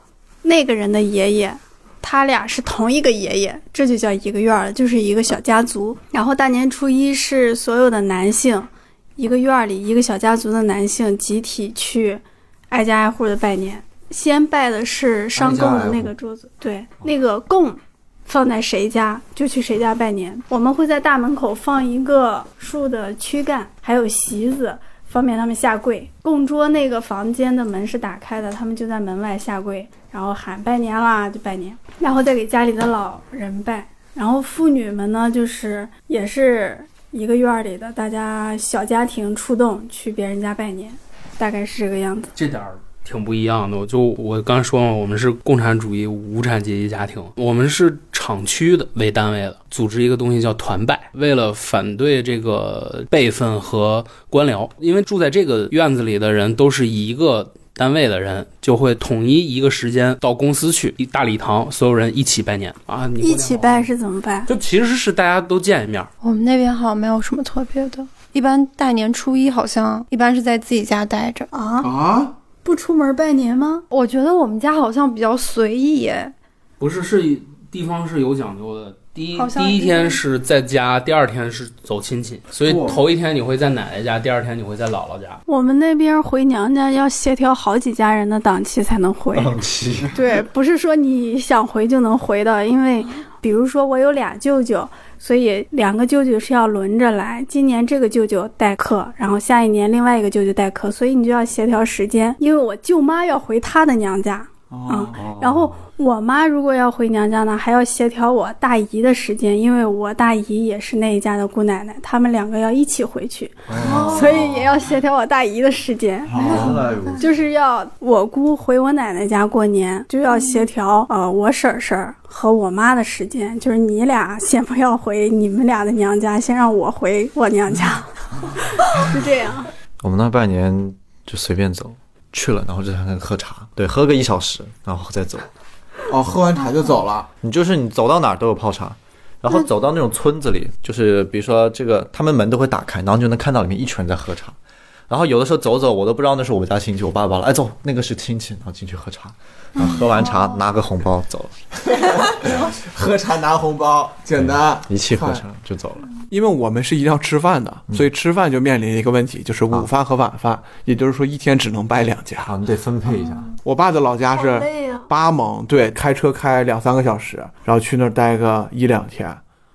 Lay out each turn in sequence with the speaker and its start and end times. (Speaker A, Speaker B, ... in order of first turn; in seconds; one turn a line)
Speaker A: 0.4-42.3
Speaker B: 15.3-16.1
Speaker C: 42.3-63.9
Speaker A: 63.2-64.5
Speaker C: 64.5-66.1
Speaker D: 66.2-71.5
Speaker A: 71.5-71.9
Speaker E: 71.8-72.3
Speaker A: 72.6-73.8
Speaker D: 73.9-76.3
Speaker C: 76.8-85.4
Speaker D: 79.3-80.2
Speaker E: 82.6-83.0
Speaker A: 85.5-89.5
Speaker B: 89.3-90.2
Speaker A: 90.1-116.6
Speaker E: 104.7-105.2
Speaker B: 105.1-105.8
Speaker B: 113.7-114.7
Speaker D: 113.8-114.4
Speaker E: 113.8-114.1
Speaker E: 116.3-116.8
Speaker D: 116.4-117.2
Speaker B: 116.4-117.3
Speaker A: 117.2-129.7
Speaker D: 120.3-120.6
Speaker B: 130.0-135.5
Speaker E: 136.1-137.3
Speaker B: 137.4-144.6
Speaker B: 145.1-151.6
Speaker D: 149.8-150.6
Speaker E: 151.9-155.4
Speaker B: 154.4-156.1
Speaker E: 156.3-162.5
Speaker B: 162.4-163.4
Speaker E: 163.6-169.4
Speaker A: 164.3-165.1